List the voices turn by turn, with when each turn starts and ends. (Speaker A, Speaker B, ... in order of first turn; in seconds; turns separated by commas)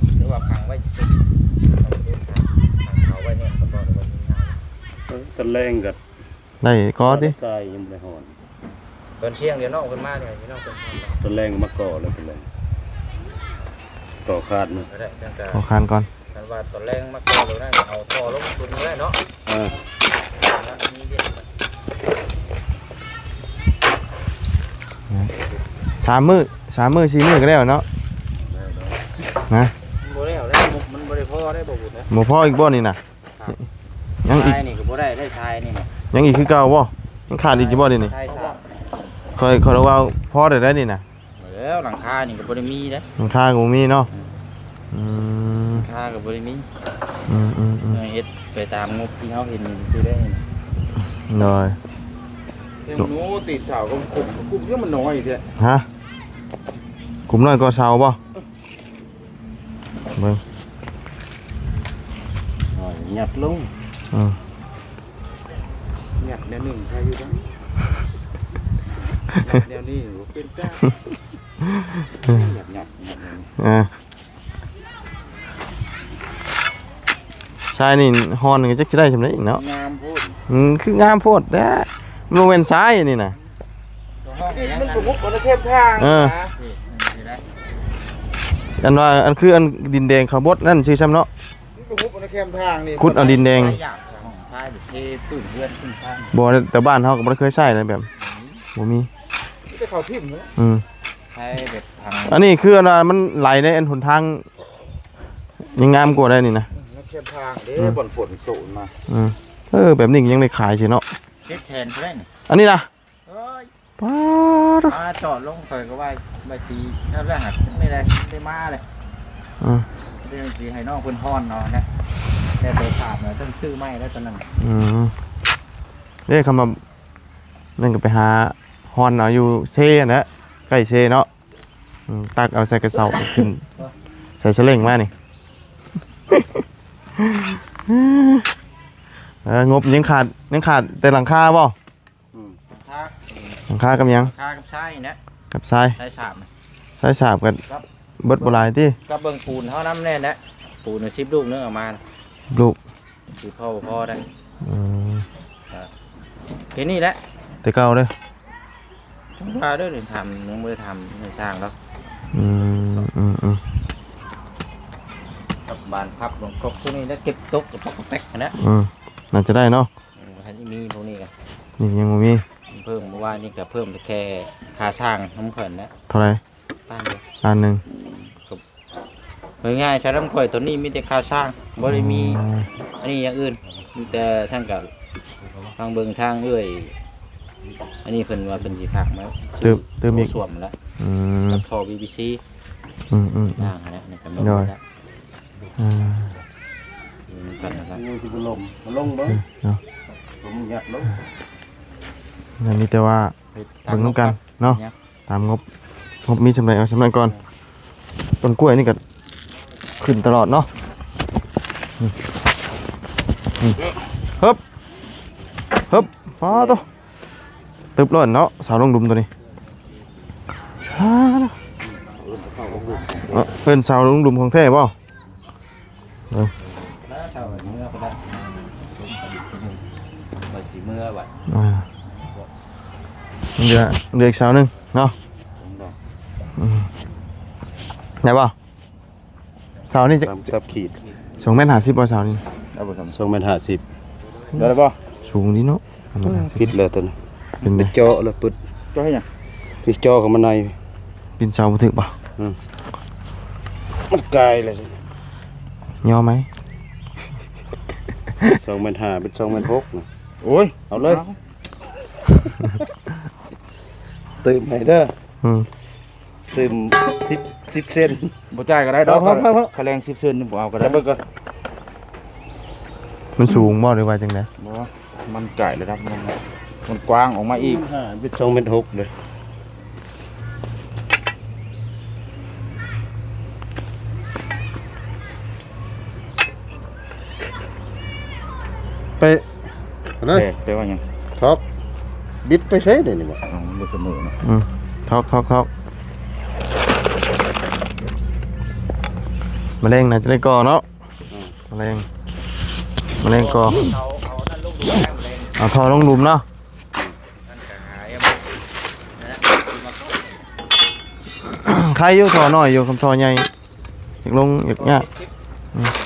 Speaker A: 0.1-1.2, Speaker A: 1.8-4.6, Speaker B: 5.1-6.0, Speaker C: 6.6-7.3, Speaker B: 7.0-8.3, Speaker A: 9.2-11.2, Speaker B: 11.2-12.4, Speaker B: 14.2-14.9, Speaker A: 14.9-15.6, Speaker C: 15.5-16.1, Speaker A: 16.3-19.2, Speaker B: 19.4-19.8, Speaker A: 20.4-21.4, Speaker C: 26.0-27.8, Speaker B: 28.4-29.0, Speaker A: 30.0-32.1, Speaker C: 32.1-33.0, Speaker C: 34.2-34.6, Speaker A: 34.3-35.9, Speaker C: 36.1-38.1, Speaker A: 37.4-38.6, Speaker D: 38.3-38.6, Speaker C: 39.4-41.0, Speaker A: 41.4-43.1, Speaker C: 43.2-44.1, Speaker C: 44.9-45.8, Speaker A: 45.7-46.6, Speaker C: 47.3-48.0, Speaker A: 47.9-50.4, Speaker C: 51.3-51.8, Speaker D: 52.8-55.5, Speaker C: 55.6-55.8, Speaker C: 57.3-58.2, Speaker C: 60.1-60.4, Speaker B: 62.7-63.7, Speaker C: 64.1-64.4, Speaker D: 66.2-67.5, Speaker D: 69.3-70.9, Speaker C: 71.6-72.5, Speaker D: 72.2-73.5, Speaker C: 73.6-73.9, Speaker C: 77.7-79.6, Speaker D: 79.5-80.4, Speaker C: 80.5-83.3, Speaker A: 84.2-85.1, Speaker D: 84.4-86.5, Speaker C: 86.0-86.3, Speaker A: 86.5-87.4, Speaker C: 88.7-91.3, Speaker D: 91.7-93.3, Speaker C: 93.0-93.8, Speaker A: 93.0-96.3, Speaker C: 96.3-98.1, Speaker A: 98.2-98.6, Speaker C: 98.8-99.1, Speaker D: 99.7-100.5, Speaker C: 100.6-100.8, Speaker A: 101.3-102.4, Speaker C: 102.3-104.5, Speaker C: 105.7-106.7, Speaker D: 106.7-108.9, Speaker C: 109.1-111.0, Speaker A: 111.5-112.3, Speaker C: 112.5-112.9, Speaker A: 113.3-113.7, Speaker C: 114.0-115.0, Speaker A: 114.8-118.8, Speaker C: 119.6-119.8, Speaker A: 120.2-121.9, Speaker A: 122.6-124.5, Speaker C: 124.6-125.1, Speaker C: 126.3-126.8, Speaker C: 127.8-131.3, Speaker C: 132.1-133.6, Speaker C: 134.4-135.1, Speaker C: 136.3-136.6, Speaker C: 137.2-138.5, Speaker C: 139.4-141.7, Speaker B: 142.3-142.6, Speaker A: 142.7-145.2, Speaker C: 143.7-144.3, Speaker C: 145.5-145.9, Speaker A: 146.0-146.5, Speaker C: 147.0-147.6, Speaker C: 148.2-149.0, Speaker A: 149.0-152.0, Speaker C: 152.5-152.8, Speaker A: 153.3-154.2, Speaker C: 154.6-155.2, Speaker A: 156.7-157.2, Speaker C: 157.6-158.1, Speaker A: 159.4-161.7, Speaker C: 162.3-163.6, Speaker A: 165.7-168.5, Speaker C: 168.6-169.9, Speaker A: 170.2-171.3, Speaker C: 171.8-172.4, Speaker A: 172.7-175.9, Speaker C: 176.1-176.4, Speaker A: 176.9-177.2, Speaker C: 177.4-177.8, Speaker A: 178.0-178.6, Speaker A: 179.6-182.4, Speaker C: 181.8-182.7, Speaker A: 183.0-184.9, Speaker A: 185.8-186.9, Speaker A: 188.0-190.8, Speaker C: 189.6-190.4, Speaker C: 191.0-191.6, Speaker A: 191.5-192.4, Speaker C: 193.1-193.7, Speaker A: 193.6-194.8, Speaker C: 194.4-194.7, Speaker C: 195.8-196.3, Speaker A: 197.3-198.0, Speaker B: 197.6-199.4, Speaker C: 199.4-199.8, Speaker B: 200.4-201.2, Speaker C: 202.6-203.3, Speaker A: 203.5-204.9, Speaker C: 203.9-205.6, Speaker C: 206.2-207.3, Speaker C: 208.4-209.0, Speaker C: 210.0-210.7, Speaker C: 215.9-216.8, Speaker C: 217.9-219.3, Speaker C: 220.9-221.5, Speaker B: 222.1-223.3, Speaker A: 222.5-223.6, Speaker C: 223.3-224.9, Speaker A: 226.9-229.8, Speaker A: 230.5-231.3, Speaker C: 231.5-231.8, Speaker C: 233.6-235.1, Speaker A: 235.6-235.9, Speaker C: 236.6-236.9, Speaker C: 238.2-238.5, Speaker C: 239.9-240.4, Speaker B: 240.2-241.0, Speaker C: 241.4-242.4, Speaker D: 242.7-243.2, Speaker B: 243.1-243.8, Speaker D: 244.6-244.9, Speaker C: 245.2-246.7, Speaker B: 246.2-248.6, Speaker C: 247.6-247.9, Speaker D: 248.9-249.2, Speaker B: 249.8-250.8, Speaker C: 251.4-252.1, Speaker B: 254.1-254.9, Speaker C: 256.0-256.5, Speaker B: 258.5-260.1, Speaker D: 260.4-261.4, Speaker B: 260.9-261.2, Speaker B: 264.4-265.1, Speaker C: 265.4-265.7, Speaker B: 266.5-268.3, Speaker D: 268.5-271.1, Speaker B: 269.0-269.7, Speaker B: 270.8-271.2, Speaker C: 273.4-274.5, Speaker D: 274.6-277.8, Speaker B: 277.5-279.1, Speaker D: 290.3-291.0, Speaker B: 291.4-291.6, Speaker B: 292.4-293.4, Speaker D: 293.4-294.3, Speaker C: 294.4-295.7, Speaker C: 299.8-300.8, Speaker C: 301.7-302.1, Speaker C: 303.2-303.8, Speaker A: 303.2-306.0, Speaker C: 305.6-306.4, Speaker A: 307.3-308.4, Speaker A: 309.2-310.5, Speaker C: 311.5-313.5, Speaker C: 314.2-315.1, Speaker A: 314.8-315.3